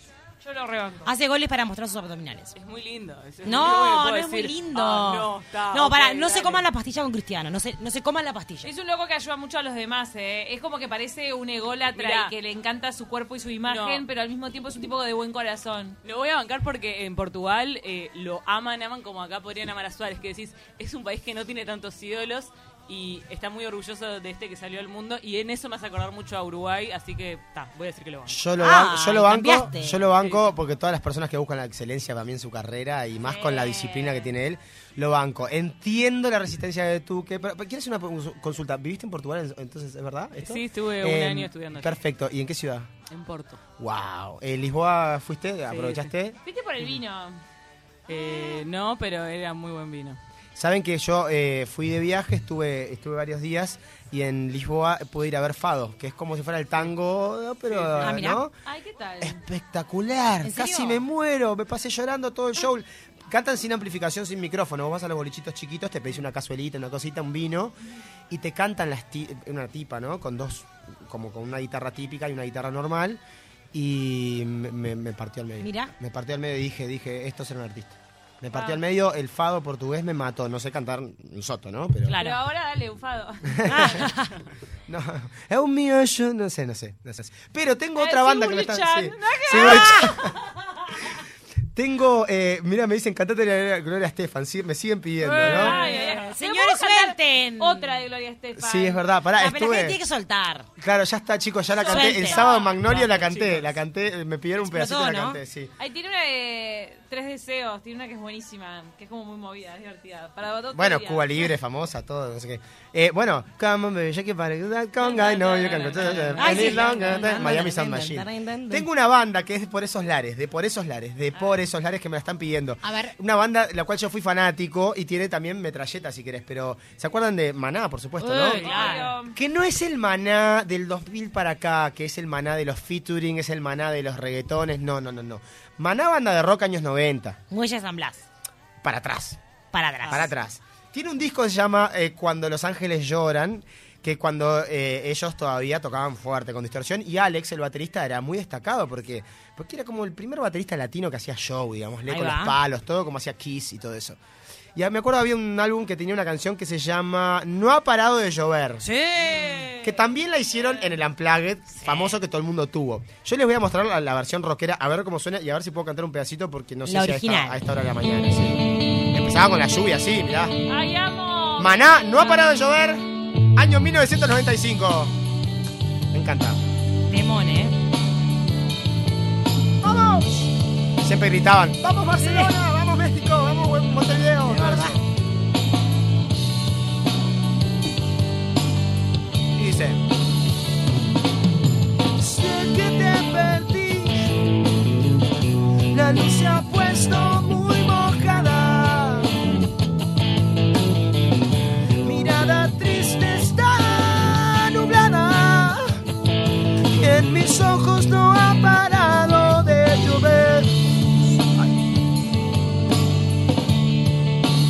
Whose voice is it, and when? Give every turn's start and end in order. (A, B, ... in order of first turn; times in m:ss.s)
0:00.4-0:01.1 A
0:01.1-0:02.5 B
0:02.6-0:06.7 C
0:03.4-0:08.7 B
0:08.6-0:16.0 A
0:12.0-0:12.3 C
0:13.7-0:14.0 C
0:16.0-0:28.4 C
0:28.3-0:42.9 D
0:28.6-0:30.0 B
0:30.1-0:30.6 C
0:33.2-0:34.3 A
0:40.4-0:42.0 C
0:43.1-0:43.6 C
0:43.8-0:46.4 D
0:45.7-0:46.1 C
0:46.4-0:47.4 A
0:48.1-0:50.2 C
0:48.1-0:48.6 A
0:50.6-0:58.5 D
0:57.7-0:58.2 C
0:58.0-0:58.4 B
0:58.6-0:59.4 A
0:59.2-1:07.8 D
1:00.4-1:01.0 B
1:08.3-1:13.2 D
1:13.7-1:22.2 D
1:15.6-1:15.9 B
1:18.5-1:18.8 A
1:22.1-1:22.4 B
1:22.1-1:24.1 A
1:23.5-1:24.1 D
1:23.7-1:24.4 B
1:24.9-1:30.3 D
1:28.0-1:30.3 A
1:29.5-1:30.2 B
1:31.7-1:35.8 D
1:35.2-1:38.0 B
1:35.3-1:39.0 A
1:38.6-1:40.0 D
1:39.4-1:40.7 B
1:40.8-1:45.7 D
1:41.8-1:42.7 A
1:41.8-1:42.6 B
1:42.8-1:43.7 C
1:44.6-1:45.4 B
1:45.8-1:51.5 A
1:50.7-2:17.4 D
1:55.0-1:57.4 C
1:56.4-1:58.9 B
2:02.8-2:03.2 B
2:08.2-2:09.1 B
2:08.3-2:09.4 A
2:17.5-2:18.2 B
2:18.8-2:19.4 D
2:19.7-2:20.3 B
2:20.1-2:34.2 D
2:32.1-2:32.6 B
2:34.8-2:38.9 D
2:38.8-2:39.9 B
2:39.8-2:50.6 D
2:41.8-2:42.1 B
2:46.8-2:47.6 B
2:50.7-2:52.6 A
2:51.6-2:55.2 D
2:56.1-2:56.6 D
2:57.1-2:57.8 B
2:59.8-3:00.5 D
3:01.0-3:05.0 D
3:02.2-3:02.5 B
3:04.4-3:05.0 B
3:09.6-3:10.0 D
3:12.2-3:14.4 D
3:15.9-3:19.4 D
3:22.0-3:26.0 D
3:26.9-3:31.8 D